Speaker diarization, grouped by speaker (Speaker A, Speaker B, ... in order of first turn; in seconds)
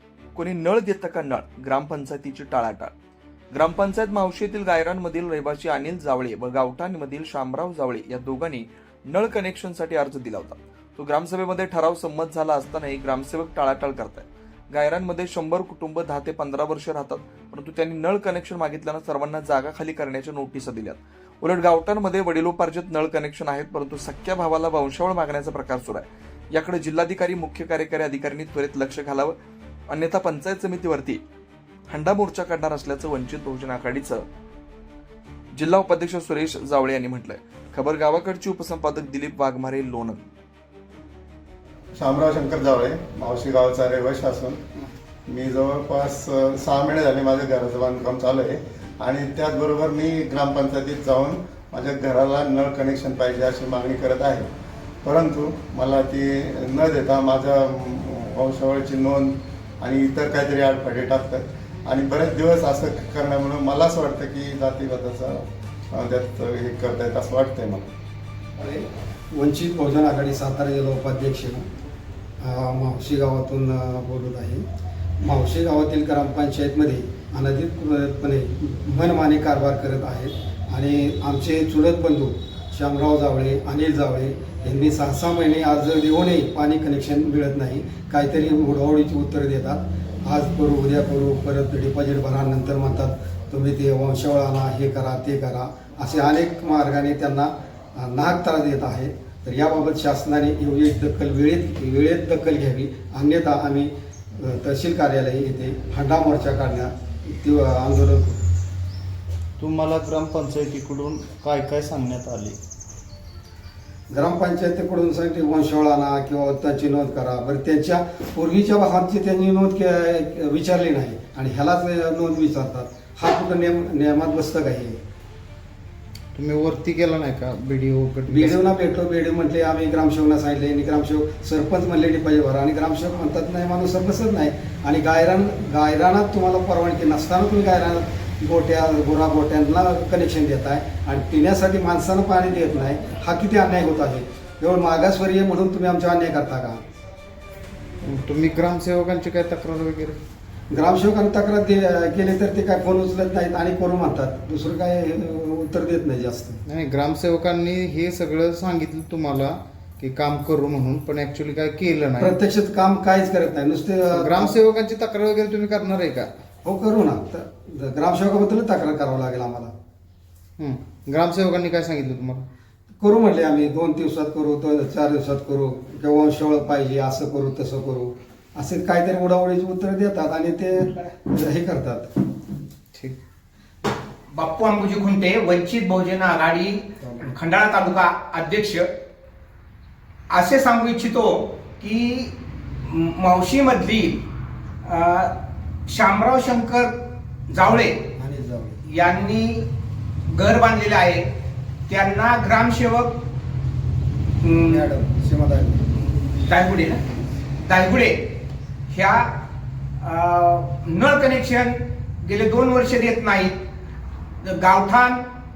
Speaker A: 0.3-2.9, 3.5-29.4, 29.9-31.2, 31.9-34.2, 35.6-40.2
Speaker B: 41.9-44.6, 45.2-54.5, 55.0-67.9
Speaker C: 68.6-71.6, 72.4-74.6, 75.2-108.4, 114.1-125.0, 128.3-146.8, 150.7-156.6, 162.2-164.5, 166.6-169.7, 173.0-182.1, 198.2-198.8, 204.7-205.9
Speaker D: 109.6-112.6, 126.3-128.6, 148.0-150.2, 156.7-162.3, 164.1-166.3, 170.6-172.4
Speaker E: 184.3-188.9, 190.3-192.3, 192.8-194.2, 194.8-195.3, 195.9-196.9, 197.5-198.0, 198.9-199.7, 200.3-201.2, 201.9-203.2, 204.4-204.9, 206.4-207.0, 207.6-208.3, 208.9-209.3, 210.0-213.6, 214.4-215.2